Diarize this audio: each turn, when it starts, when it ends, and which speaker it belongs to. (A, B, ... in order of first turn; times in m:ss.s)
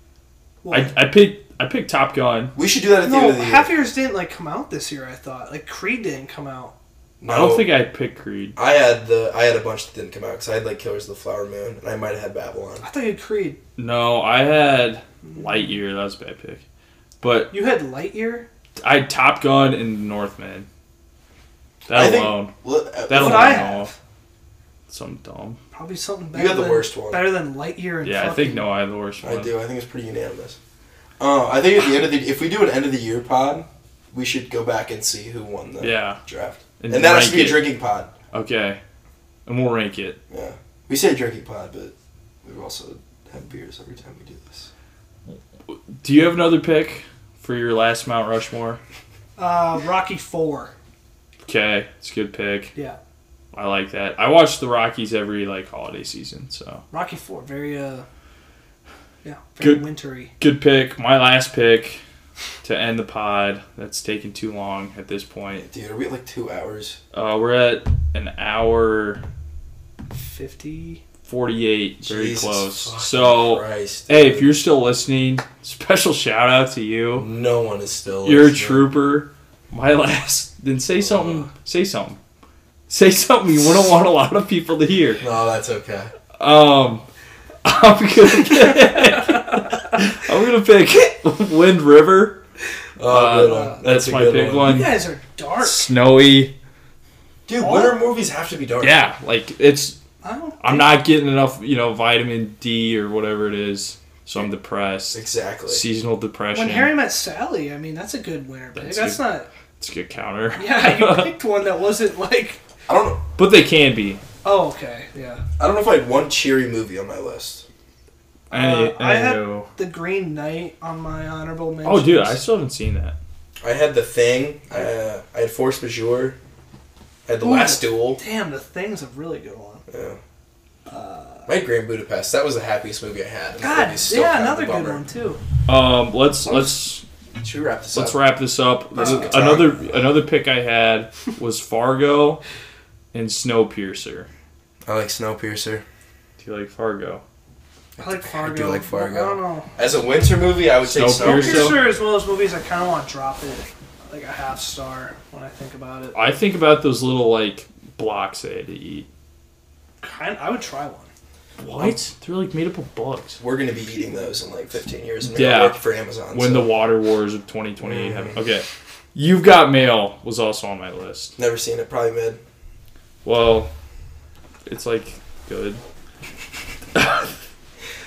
0:00.6-0:00.9 A
0:00.7-0:02.5 B
0:02.6-0:03.7 C
0:03.0-0:06.7 A
0:07.2-0:07.7 C
0:07.3-0:08.6 B
0:08.6-0:12.8 C
0:12.8-0:13.6 A
0:13.8-0:16.6 B
0:17.2-0:17.6 B
0:17.5-0:18.5 A
0:18.8-0:20.7 B
0:21.9-0:22.5 B
0:21.9-0:23.8 C
0:23.1-0:23.9 B
0:23.1-0:23.9 A
0:24.9-0:25.6 B
0:25.7-0:28.7 A
0:26.3-0:27.3 C
0:28.0-0:29.6 B
0:29.2-0:30.6 C
0:31.2-0:38.1 C
0:35.8-0:36.2 B
0:36.8-0:37.7 B
0:38.3-0:38.8 B
0:39.5-0:40.2 B
0:40.3-0:44.7 C
0:46.0-0:48.8 B
0:49.4-0:50.7 A
0:51.4-0:52.7 B
0:53.5-0:56.8 B
0:56.9-0:58.1 A
0:59.2-1:00.3 A
1:00.4-1:02.0 B
1:02.6-1:05.7 B
1:05.6-1:07.0 C
1:07.1-1:09.2 B
1:10.1-1:11.0 A
1:11.3-1:17.3 B
1:12.0-1:14.6 C
1:17.2-1:18.9 C
1:18.2-1:22.2 B
1:21.1-1:21.4 C
1:22.9-1:25.2 B
1:25.2-1:26.1 C
1:26.4-1:27.0 B
1:27.6-1:32.4 B
1:33.0-1:34.8 C
1:33.0-1:35.0 B
1:33.5-1:33.8 A
1:34.6-1:35.9 A
1:35.6-1:36.6 B
1:37.5-1:39.0 C
1:37.6-1:38.0 A
1:38.8-1:40.0 B
1:40.2-1:41.0 A
1:40.6-1:46.9 B
1:45.1-1:45.8 C
1:46.5-1:49.5 A
1:48.8-1:51.3 B
1:50.6-1:52.6 A
1:52.9-1:53.2 C
1:53.4-1:54.2 B
1:54.4-1:55.4 A
1:55.6-1:57.6 C
1:58.5-1:59.7 B
1:58.5-2:02.4 A
2:01.8-2:03.2 B
2:03.6-2:06.4 C
2:07.3-2:08.2 C
2:07.4-2:09.8 A
2:09.9-2:10.2 C
2:10.9-2:11.5 A
2:11.5-2:15.0 C
2:13.6-2:15.4 A
2:15.7-2:17.0 B
2:17.4-2:18.2 C
2:17.9-2:22.4 B
2:19.0-2:20.0 C
2:19.0-2:19.4 A
2:23.1-2:24.3 B
2:24.9-2:25.8 C
2:26.4-2:27.2 B
2:28.0-2:31.8 C
2:28.0-2:29.8 A
2:30.8-2:31.9 B
2:31.2-2:36.2 A
2:36.1-2:39.1 B
2:40.0-2:41.1 A
2:41.6-2:43.4 B
2:43.4-2:46.7 C
2:45.2-2:45.8 B
2:46.3-2:51.4 B
2:47.8-2:48.4 C
2:51.4-2:52.4 C
2:53.2-2:53.7 B
2:54.7-2:55.8 B
2:57.0-2:57.3 B